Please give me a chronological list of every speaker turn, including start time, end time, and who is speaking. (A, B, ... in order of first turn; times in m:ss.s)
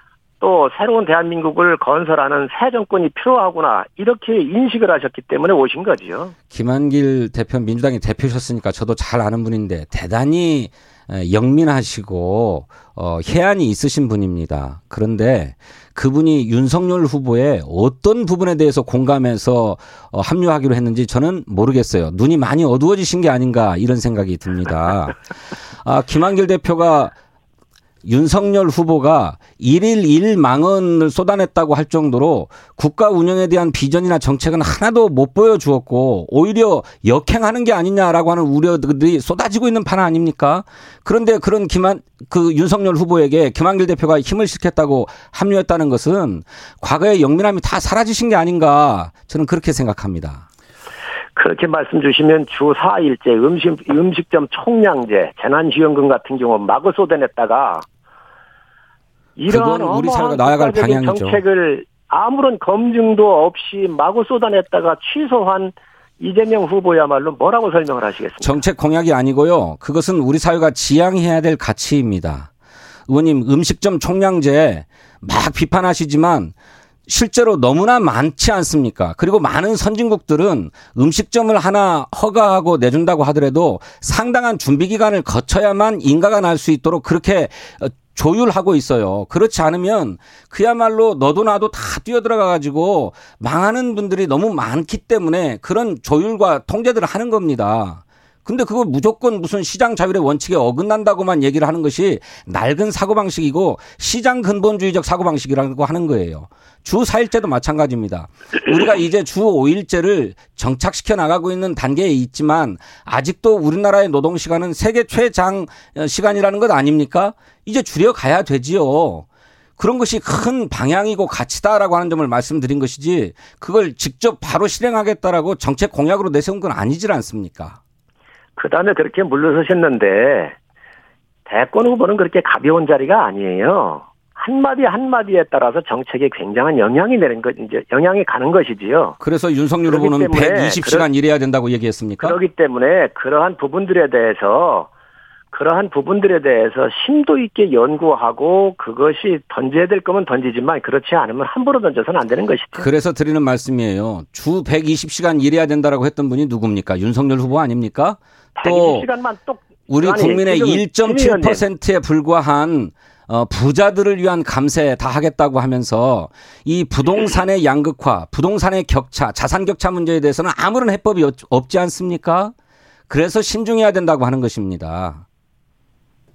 0:00.4-0:06.4 A
0:06.5-0:25.2 B
0:25.8-0:27.1 B
0:28.0-0:50.4 B
0:51.4-0:57.8 A
0:59.4-1:08.6 A
0:59.5-1:01.4 B
1:08.4-1:12.5 B
1:13.1-1:16.5 B
1:17.1-1:59.3 B
1:59.8-2:07.8 B
2:08.6-2:10.6 A
2:11.4-2:19.2 A
2:19.2-2:22.4 B
2:19.9-2:21.1 A
2:22.2-2:24.9 A
2:25.5-2:32.9 A
2:32.8-2:39.1 B
2:38.6-2:41.6 A
2:39.9-2:52.5 B
2:53.1-2:55.2 B